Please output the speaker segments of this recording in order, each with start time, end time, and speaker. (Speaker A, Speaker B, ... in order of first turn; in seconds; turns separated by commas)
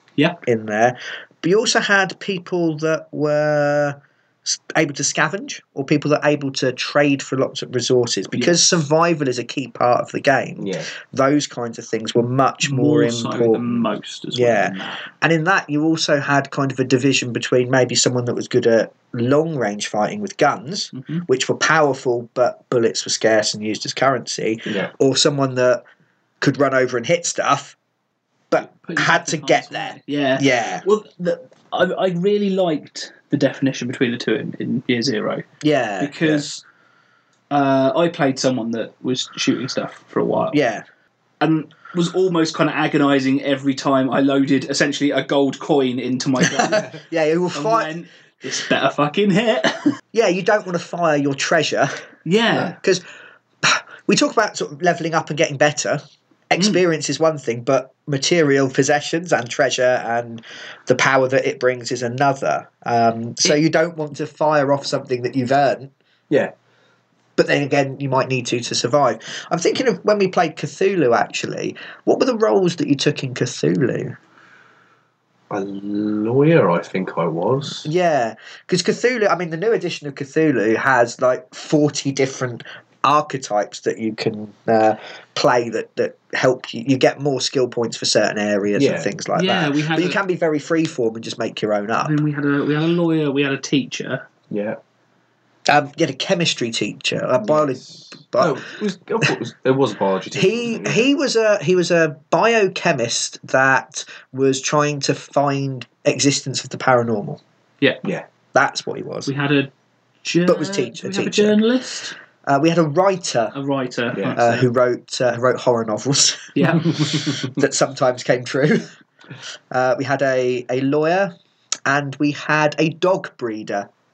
Speaker A: 0.4-25.8, Speaker B: 8.3-8.6, Speaker C: 10.6-10.9, Speaker B: 12.6-15.1, Speaker B: 20.9-21.3, Speaker A: 26.4-27.8, Speaker A: 28.5-30.9, Speaker B: 28.6-35.4, Speaker A: 35.6-36.4, Speaker B: 36.0-36.6, Speaker B: 37.5-40.6, Speaker A: 40.5-40.8, Speaker B: 41.4-46.9, Speaker A: 46.4-47.9, Speaker B: 47.5-50.0, Speaker A: 50.1-51.9, Speaker B: 52.3-52.8, Speaker A: 52.5-53.0, Speaker A: 53.6-65.9, Speaker B: 56.6-56.8, Speaker A: 67.4-74.2, Speaker C: 75.5-77.9, Speaker A: 77.8-92.2, Speaker C: 88.8-89.1, Speaker B: 89.3-90.2, Speaker B: 92.0-94.3, Speaker C: 94.5-94.8, Speaker A: 95.7-98.6, Speaker C: 97.4-101.0, Speaker A: 100.3-107.4, Speaker A: 108.5-109.3, Speaker B: 109.3-109.7, Speaker B: 110.2-112.1, Speaker A: 110.5-111.6, Speaker A: 112.5-113.5, Speaker B: 113.5-114.7, Speaker A: 114.3-118.9, Speaker B: 116.5-117.2, Speaker C: 117.1-117.5, Speaker A: 119.7-121.3, Speaker A: 121.9-123.9